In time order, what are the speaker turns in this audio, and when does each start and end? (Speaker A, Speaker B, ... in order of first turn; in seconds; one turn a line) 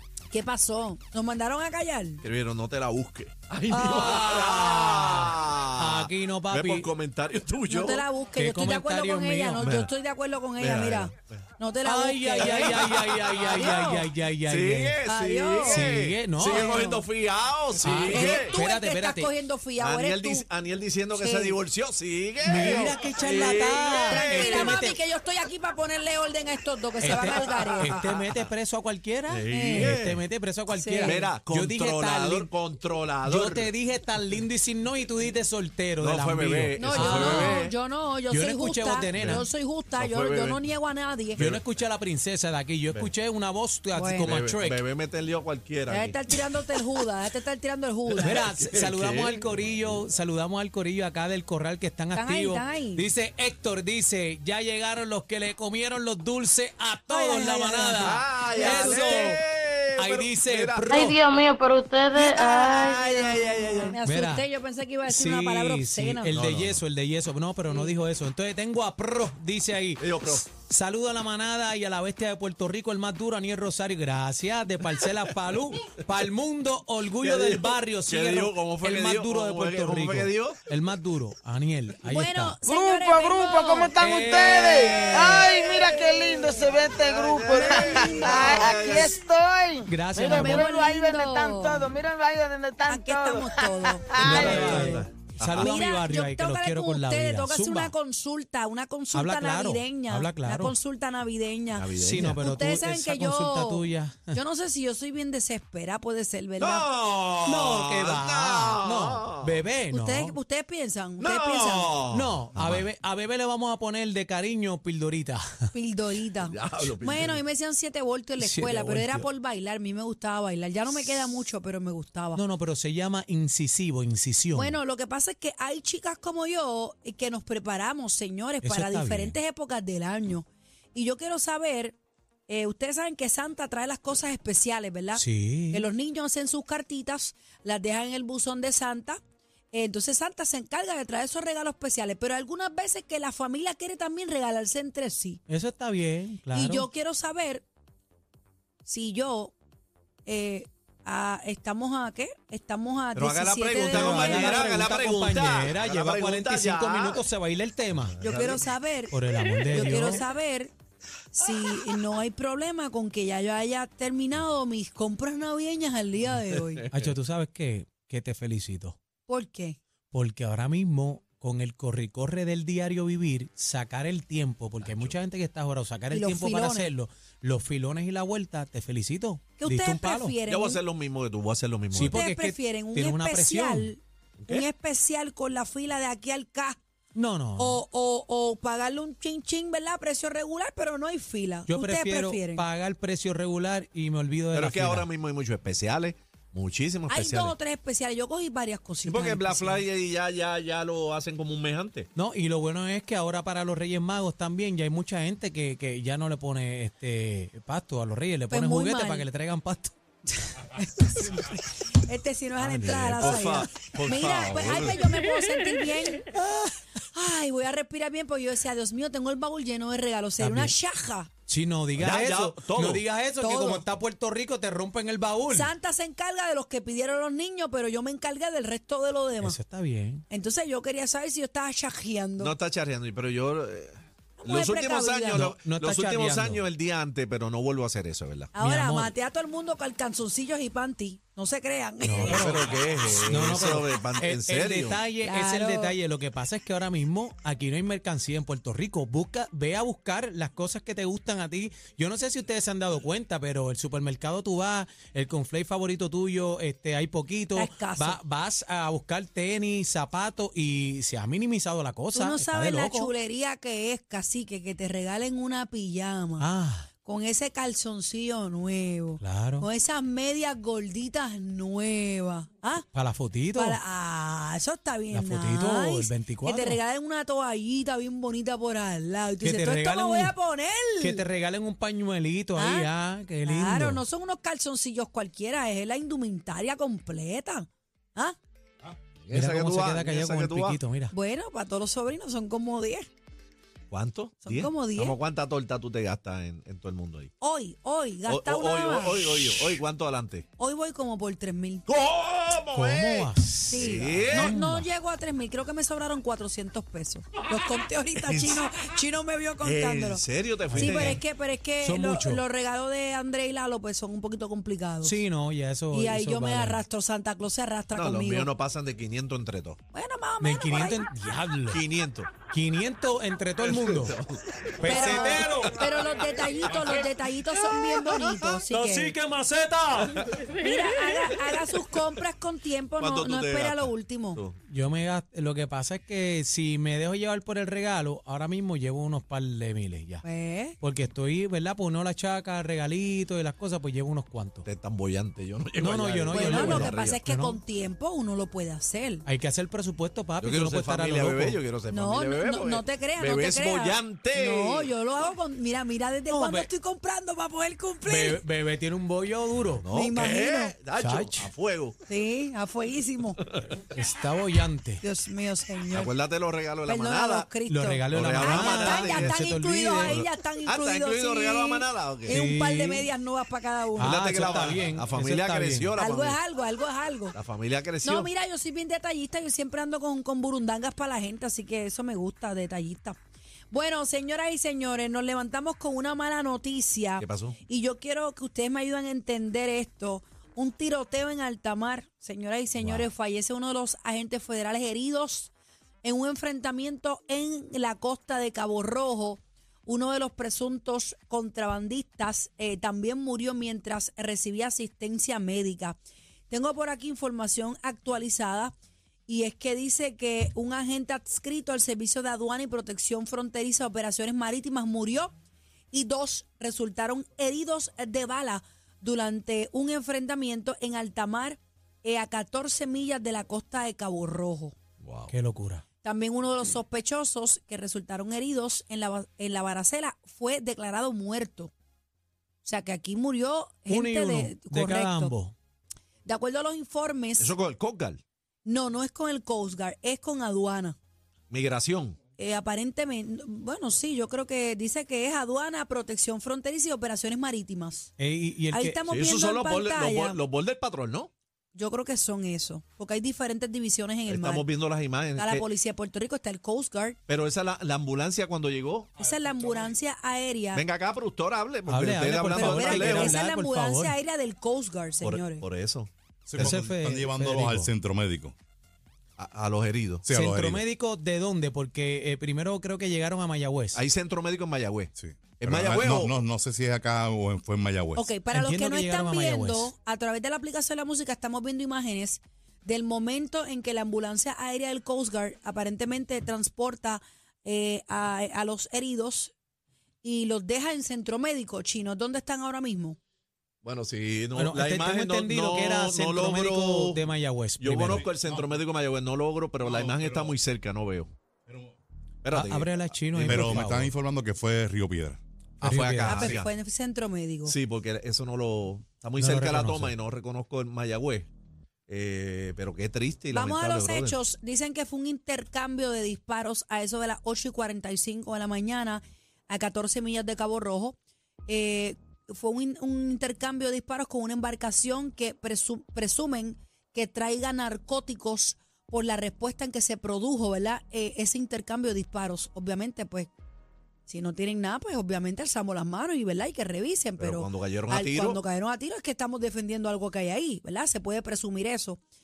Speaker A: 0.3-2.2
Speaker B: 2.2-8.1
Speaker C: 3.7-6.9
Speaker A: 7.7-14.1
Speaker C: 8.3-9.7
Speaker B: 9.6-9.9
Speaker B: 10.6-11.4
Speaker C: 11.8-15.0
Speaker B: 12.4-13.9
Speaker B: 14.5-18.6
Speaker A: 15.1-15.9
Speaker C: 15.6-16.9
Speaker A: 16.4-17.1
Speaker C: 17.8-19.3
Speaker A: 18.1-20.5
Speaker B: 19.8-24.8
Speaker A: 21.2-21.6
Speaker C: 22.4-25.0
Speaker A: 23.0-28.0
Speaker C: 27.0-32.5
Speaker B: 27.1-28.5
Speaker B: 29.3-30.2
Speaker A: 30.7-31.3
Speaker B: 31.1-33.7
Speaker C: 33.2-37.6
Speaker B: 36.0-37.7
Speaker A: 36.8-41.4
Speaker C: 38.3-39.5
Speaker B: 39.2-40.6
Speaker B: 41.4-41.6
Speaker C: 41.4-44.8
Speaker A: 43.9-44.3
Speaker B: 44.2-46.2
Speaker A: 45.9-48.4
Speaker B: 48.2-49.7
Speaker C: 48.2-59.4
Speaker A: 52.1-53.1
Speaker A: 57.1-59.3
Speaker B: 58.0-61.1
Speaker C: 60.0-61.2
Speaker D: 60.9-63.2
Speaker A: 62.1-66.3
Speaker B: 62.2-64.0
Speaker C: 64.1-64.5
Speaker C: 65.1-82.6
Speaker B: 66.3-66.8
Speaker A: 67.7-68.0
Speaker B: 70.0-70.5
Speaker B: 77.2-80.6
Speaker A: 82.0-84.0
Speaker E: 82.7-94.9
Speaker C: 84.0-85.6
Speaker A: 85.8-86.8
Speaker B: 86.9-89.2
Speaker A: 88.0-88.3
Speaker C: 89.8-90.7
Speaker A: 90.2-91.9
Speaker A: 92.9-94.9
Speaker B: 94.2-95.8
Speaker C: 94.2-97.9
Speaker A: 95.5-106.9
Speaker C: 99.1-100.8
Speaker B: 101.7-102.4
Speaker C: 102.0-104.4
Speaker B: 106.6-109.6
Speaker C: 107.4-110.4
Speaker A: 109.9-112.0
Speaker B: 111.2-112.9
Speaker C: 112.1-115.7
Speaker A: 115.7-122.4
Speaker B: 116.4-117.4
Speaker C: 118.4-119.3
Speaker C: 122.4-124.8
Speaker A: 124.5-132.0
Speaker C: 128.6-129.4
Speaker A: 132.5-139.2
Speaker C: 135.1-135.9
Speaker A: 139.7-145.4
Speaker C: 145.5-146.9
Speaker A: 146.5-147.7
Speaker A: 148.8-149.5
Speaker A: 150.3-154.7
Speaker B: 153.2-157.2
Speaker C: 153.9-158.2
Speaker B: 158.1-158.7
Speaker A: 158.2-160.7
Speaker C: 159.1-160.2
Speaker A: 161.3-166.9
Speaker C: 166.9-169.0
Speaker A: 169.3-169.8
Speaker C: 170.1-180.4
Speaker B: 174.8-175.2
Speaker A: 176.1-176.9
Speaker A: 179.6-180.8
Speaker B: 180.5-182.2
Speaker C: 181.9-183.9
Speaker A: 182.0-186.8
Speaker B: 184.4-184.7
Speaker C: 187.2-187.8
Speaker A: 187.6-192.7
Speaker C: 191.7-195.1
Speaker B: 194.5-197.6
Speaker A: 197.1-199.8
Speaker B: 199.1-202.1
Speaker C: 202.2-209.9
Speaker A: 208.5-209.3
Speaker A: 210.5-216.4
Speaker B: 212.7-215.1
Speaker C: 212.7-213.6
Speaker A: 217.1-221.3
Speaker C: 220.4-220.7
Speaker C: 221.5-225.7
Speaker B: 222.0-223.0
Speaker A: 223.4-223.8
Speaker A: 225.5-229.6
Speaker C: 229.4-230.3
Speaker A: 230.3-232.5
Speaker B: 232.4-238.5
Speaker A: 234.4-235.5
Speaker C: 235.3-236.6
Speaker A: 238.6-242.5
Speaker C: 238.6-239.1
Speaker C: 242.0-263.1
Speaker B: 242.2-245.0
Speaker A: 245.2-245.9
Speaker A: 257.6-258.2
Speaker A: 262.1-266.5
Speaker C: 266.4-266.9
Speaker A: 267.0-272.9
Speaker C: 269.2-269.7
Speaker C: 272.9-273.8
Speaker A: 273.6-281.2
Speaker C: 275.1-276.8
Speaker C: 279.4-280.4
Speaker C: 281.0-284.0
Speaker A: 282.6-282.9
Speaker A: 283.4-288.4
Speaker B: 289.3-290.8
Speaker C: 289.3-291.1
Speaker A: 291.1-293.1
Speaker B: 293.9-297.3
Speaker A: 294.4-295.2
Speaker A: 297.4-299.5
Speaker B: 298.3-300.5
Speaker A: 300.6-301.9
Speaker B: 301.9-304.5
Speaker C: 302.7-304.9
Speaker A: 303.7-315.2
Speaker B: 308.3-308.6
Speaker B: 309.6-311.2
Speaker C: 310.7-311.2
Speaker C: 311.8-312.4
Speaker C: 315.0-316.8
Speaker A: 315.9-318.5
Speaker B: 317.9-319.8
Speaker A: 319.9-321.1
Speaker C: 320.4-321.8
Speaker B: 321.7-322.3
Speaker C: 322.5-324.2
Speaker B: 323.6-324.4
Speaker C: 324.8-325.9
Speaker A: 324.8-329.1
Speaker C: 328.0-330.3
Speaker A: 330.6-334.4
Speaker B: 333.0-334.6
Speaker C: 334.7-340.2
Speaker A: 340.2-340.8
Speaker C: 340.8-344.7
Speaker B: 344.6-347.2
Speaker C: 345.8-347.6
Speaker A: 346.3-349.2
Speaker C: 349.3-351.6
Speaker B: 350.4-354.9
Speaker A: 351.9-358.4
Speaker C: 356.3-356.7
Speaker C: 358.1-359.8
Speaker B: 359.7-362.0
Speaker A: 359.9-360.8
Speaker C: 361.0-361.5
Speaker A: 362.1-363.4
Speaker C: 363.9-365.0
Speaker A: 365.0-366.1
Speaker B: 365.9-367.5
Speaker A: 366.9-374.1
Speaker C: 367.7-370.2
Speaker B: 368.1-369.4
Speaker B: 369.9-372.4
Speaker C: 372.3-373.1
Speaker C: 374.0-375.9
Speaker B: 374.0-376.4
Speaker A: 376.0-377.4
Speaker B: 377.3-378.3
Speaker A: 378.0-383.2
Speaker A: 383.7-395.5
Speaker B: 387.2-387.6
Speaker B: 392.8-393.1
Speaker A: 396.0-408.7
Speaker A: 409.3-415.3
Speaker A: 415.9-424.8
Speaker B: 425.0-425.3
Speaker C: 425.3-425.8
Speaker A: 426.0-431.7
Speaker A: 432.6-435.3
Speaker C: 433.9-435.6
Speaker A: 436.3-437.5
Speaker B: 437.4-438.2
Speaker A: 438.6-441.0
Speaker B: 441.5-442.2
Speaker A: 442.4-448.1
Speaker C: 448.2-449.1
Speaker A: 448.7-450.4
Speaker B: 449.1-451.3
Speaker A: 451.8-454.7
Speaker B: 454.3-455.7
Speaker A: 455.4-457.2
Speaker B: 457.3-459.1
Speaker A: 459.2-460.8
Speaker B: 460.7-463.4
Speaker C: 461.9-464.2
Speaker A: 462.5-465.6
Speaker B: 465.2-466.9
Speaker F: 466.5-468.6
Speaker C: 466.6-467.9
Speaker B: 469.4-470.3
Speaker F: 470.2-470.9
Speaker C: 470.3-474.0
Speaker B: 473.9-476.5
Speaker F: 475.2-478.4
Speaker A: 478.1-489.5
Speaker C: 478.5-479.9
Speaker A: 490.2-493.2
Speaker B: 493.8-497.2
Speaker C: 494.6-498.3
Speaker B: 497.8-501.3
Speaker F: 498.2-498.6
Speaker F: 499.9-500.5
Speaker F: 501.7-501.9
Speaker B: 502.4-503.9
Speaker C: 502.5-504.1
Speaker F: 503.4-505.4
Speaker C: 505.8-506.5
Speaker B: 505.8-506.7
Speaker A: 506.3-507.8
Speaker B: 507.6-511.5
Speaker C: 509.4-510.1
Speaker B: 512.1-514.4
Speaker A: 513.5-521.2
Speaker A: 521.7-533.5
Speaker A: 534.3-542.2
Speaker B: 537.4-538.6